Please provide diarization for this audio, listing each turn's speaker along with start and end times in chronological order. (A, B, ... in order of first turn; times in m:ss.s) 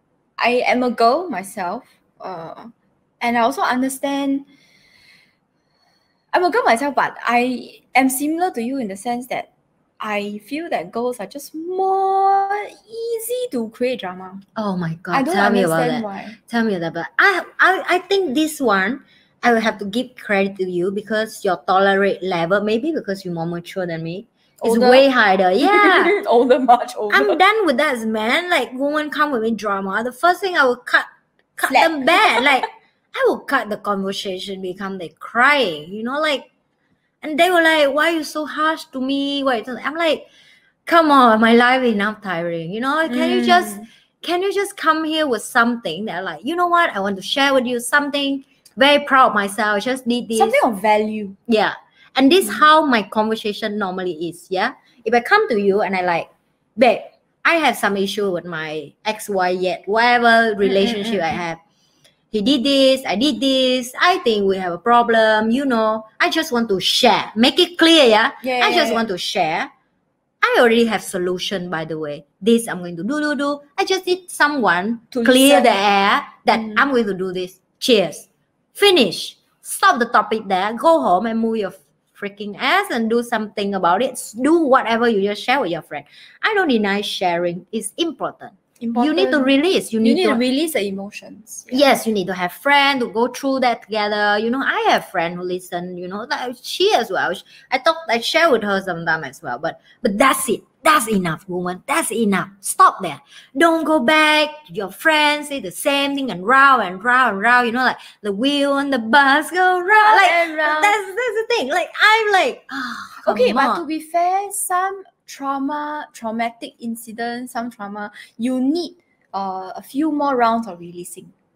0:00.4-0:04.5 A
0:06.3-0:09.5 A
0:10.0-0:14.4 A
0:14.5-0:26.1 B
0:15.1-0:16.4 A
0:24.6-0:25.1 A
0:25.6-0:27.4 A
0:27.1-0:36.4 B
0:31.7-0:32.7 A
0:37.2-0:40.2 B
0:40.8-0:50.6 B
0:43.1-0:43.9 A
0:50.3-0:51.4 A
0:51.4-1:01.6 B
1:00.6-1:01.4 A
1:02.3-1:09.7 B
1:08.4-1:09.1 A
1:10.4-1:30.4 B
1:15.1-1:15.8 A
1:16.5-1:16.9 A
1:28.8-1:31.9 A
1:31.7-1:53.8 B
1:49.8-1:51.0 A
1:53.2-2:01.3 A